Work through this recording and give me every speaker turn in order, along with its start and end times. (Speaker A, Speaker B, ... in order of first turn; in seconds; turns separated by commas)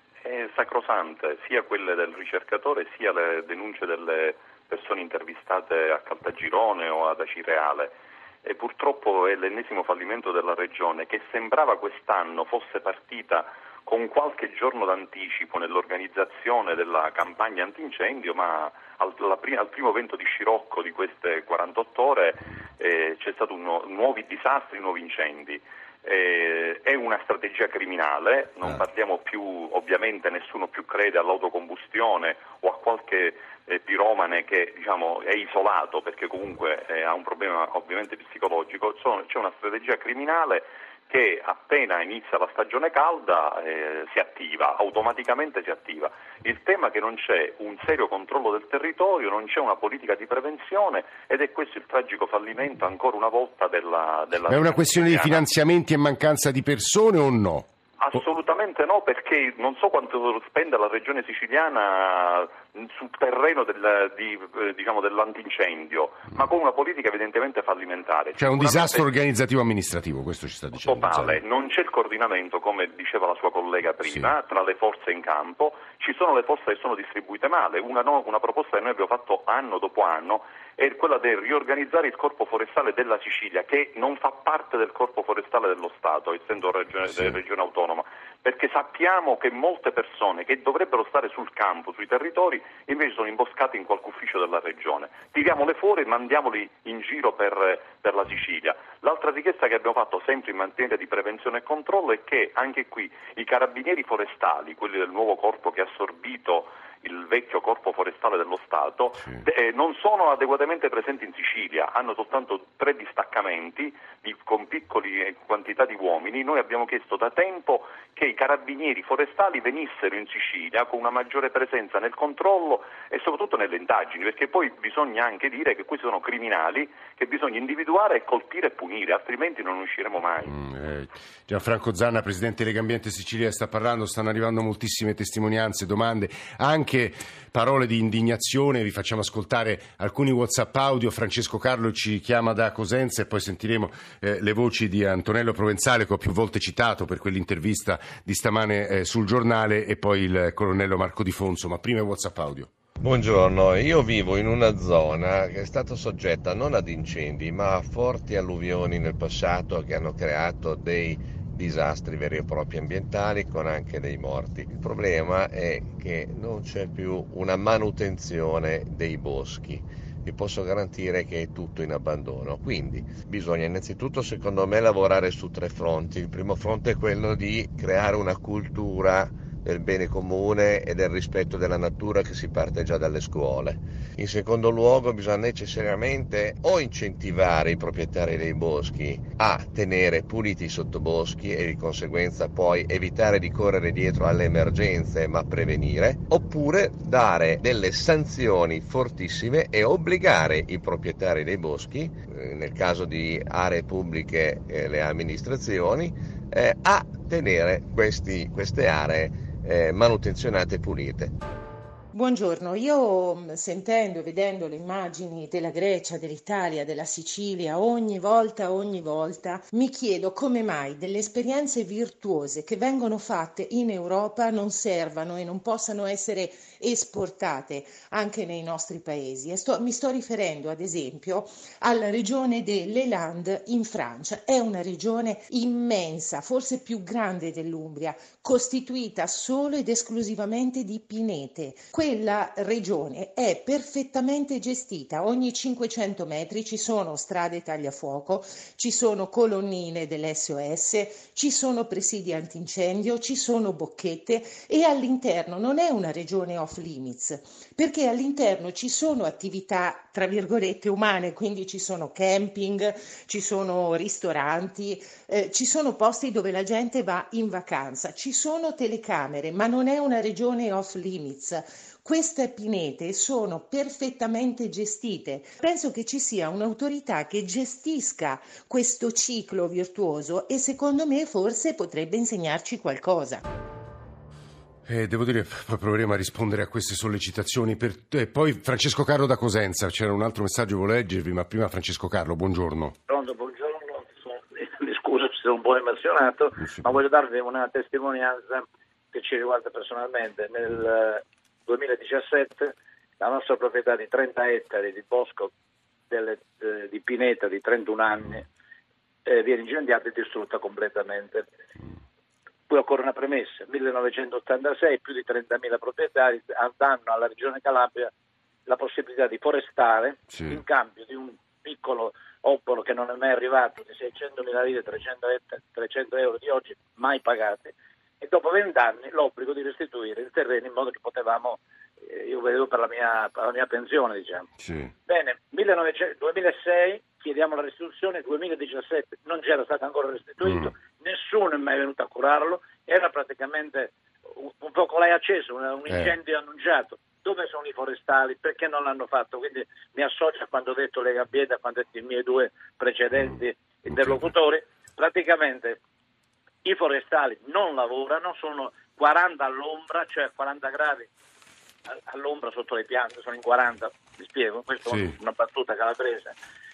Speaker A: 0.2-55.4, Speaker B: 54.5-57.7, Speaker A: 58.0-69.1, Speaker B: 68.4-71.4, Speaker A: 70.7-130.5, Speaker B: 74.0-74.3, Speaker B: 130.4-152.7, Speaker C: 153.0-211.3, Speaker D: 212.1-283.4, Speaker B: 284.9-292.9, Speaker E: 293.1-305.5, Speaker B: 296.6-296.9, Speaker E: 306.1-308.5, Speaker E: 309.2-311.4, Speaker E: 312.7-318.1, Speaker E: 318.6-334.4, Speaker B: 320.3-320.6, Speaker B: 334.6-334.9, Speaker E: 335.1-355.8, Speaker B: 340.4-340.7, Speaker B: 353.9-354.3, Speaker E: 356.6-361.1, Speaker E: 361.9-366.3, Speaker B: 364.9-365.1